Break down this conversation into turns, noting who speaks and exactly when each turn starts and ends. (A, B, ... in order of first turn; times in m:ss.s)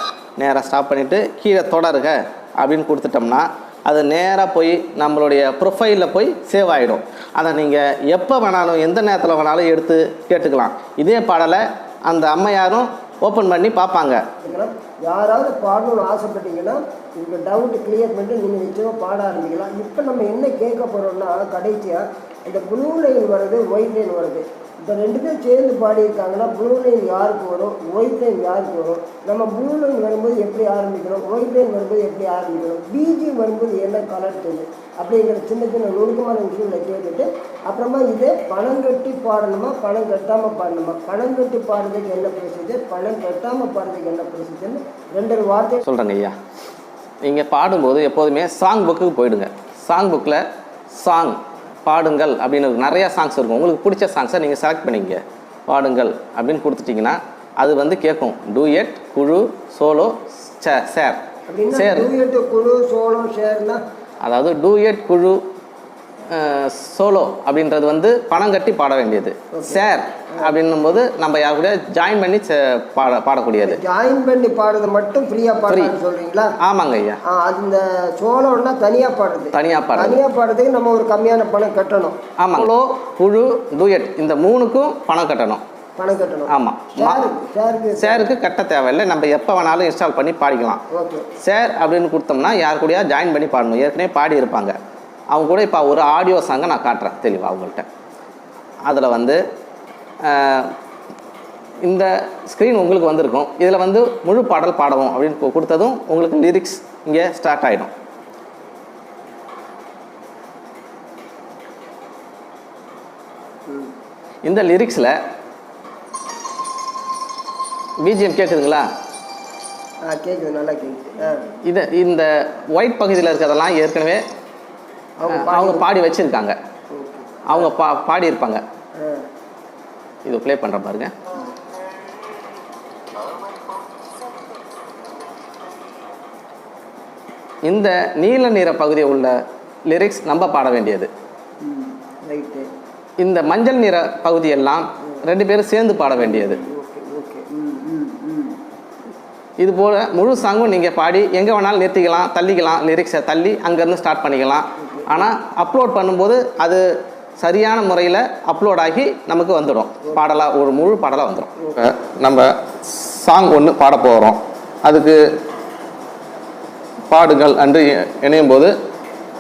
0:00.4-0:14.2 A
0:14.4-0:45.8 B
0:45.8-0:46.4 A
0:47.2-0:50.4 A
0:50.9-1:02.1 A
1:01.5-1:03.8 B
1:04.2-1:05.4 A
1:06.3-1:13.8 A
1:09.5-1:09.8 B
1:13.7-1:16.5 B
1:15.7-1:16.0 A
1:16.6-1:17.2 A
1:17.3-1:22.2 B
1:19.5-1:20.2 A
1:22.4-1:25.6 A
1:26.0-1:28.3 B
1:26.5-1:27.3 A
1:28.0-1:30.8 A
1:30.9-1:31.3 B
1:31.4-1:34.8 A
1:35.3-1:37.9 A
1:38.8-1:39.4 A
1:40.2-1:40.7 A
1:41.8-1:47.9 A
1:54.4-1:55.2 A
1:58.0-1:58.9 A
2:00.0-2:01.4 B
2:01.6-2:04.2 A
2:05.2-2:05.9 B
2:05.3-2:06.6 A
2:06.9-2:07.7 B
2:07.5-2:08.6 A
2:09.0-2:09.2 B
2:10.2-2:11.1 A
2:17.6-2:19.3 A
2:19.9-2:21.1 A
2:21.6-2:22.7 B
2:23.2-2:26.6 A
2:26.2-2:28.6 B
2:29.6-2:36.8 A
2:34.8-2:35.2 B
2:37.4-2:45.2 A
2:47.1-2:48.7 A